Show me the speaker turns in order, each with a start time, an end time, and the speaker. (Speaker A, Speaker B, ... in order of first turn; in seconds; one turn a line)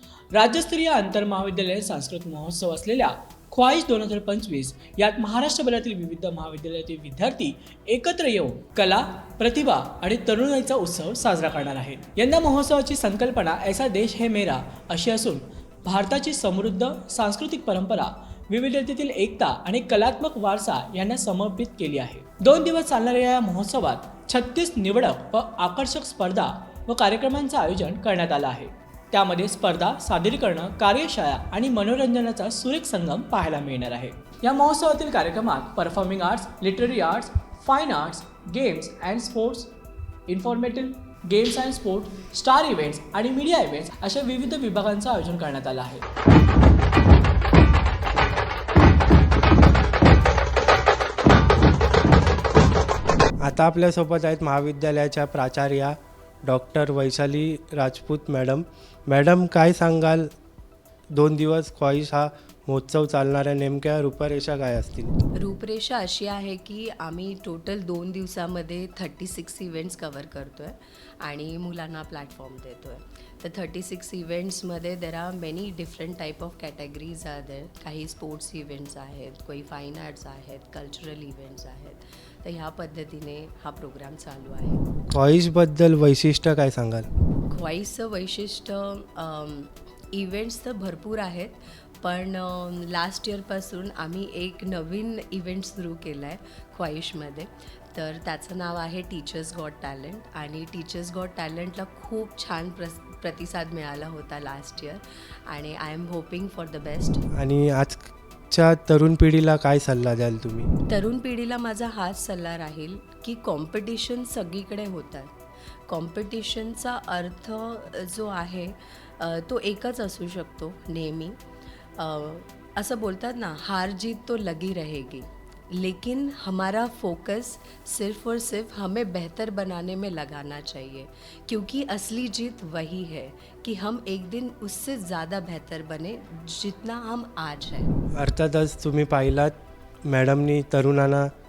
Speaker A: 0.3-39.8
Speaker A: 40.3-46.0
Speaker B: 53.4-60.3
Speaker B: 61.1-65.2
Speaker C: 65.4-84.9
Speaker B: 85.1-87.1
Speaker C: 87.5-107.2
Speaker B: 107.3-110.7
Speaker C: 110.9-115.3
Speaker C: 115.9-121.4
Speaker C: 122.0-137.9
Speaker B: 138.1-141.3